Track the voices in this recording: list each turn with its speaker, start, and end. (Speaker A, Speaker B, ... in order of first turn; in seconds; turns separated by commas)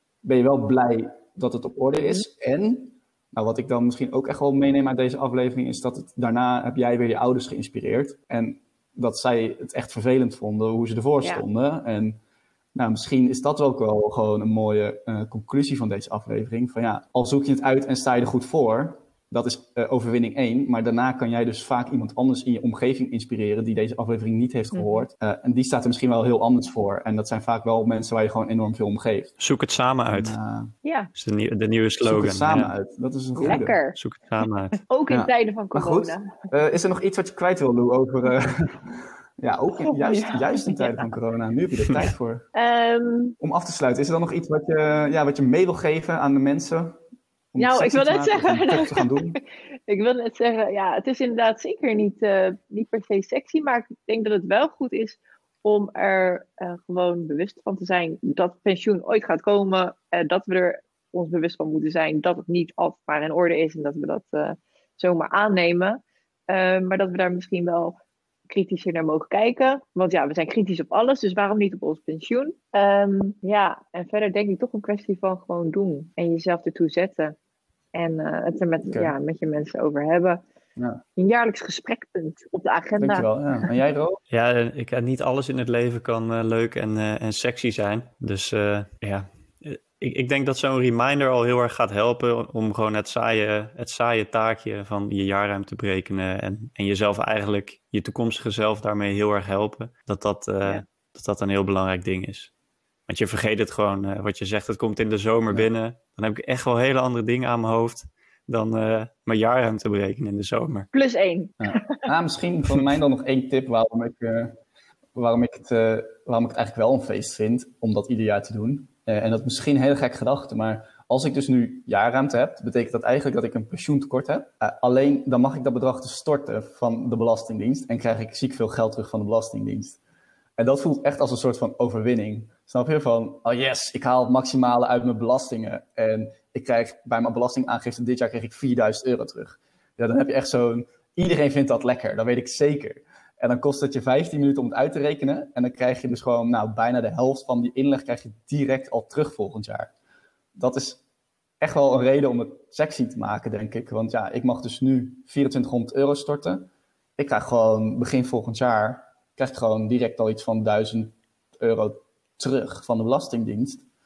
Speaker A: 0.2-12.2, Speaker A: 12.8-29.3, Speaker B: 24.7-25.1, Speaker C: 29.4-30.4, Speaker A: 30.1-30.7, Speaker B: 30.8-31.1, Speaker C: 31.1-32.7, Speaker A: 32.0-33.8, Speaker B: 33.4-34.0, Speaker C: 34.0-34.8, Speaker B: 34.9-36.3, Speaker A: 35.1-42.5, Speaker B: 39.8-41.1, Speaker B: 42.5-43.4, Speaker A: 43.4-47.0, Speaker A: 47.5-49.4, Speaker B: 47.6-68.0, Speaker B: 68.5-77.3, Speaker B: 77.9-80.4, Speaker A: 80.8-81.0, Speaker B: 81.2-83.7, Speaker A: 83.0-84.2, Speaker C: 84.3-102.5, Speaker C: 103.1-110.9, Speaker B: 110.9-112.1, Speaker A: 111.6-114.5, Speaker A: 115.1-130.0, Speaker A: 130.6-149.9, Speaker A: 150.6-151.0, Speaker A: 151.6-163.8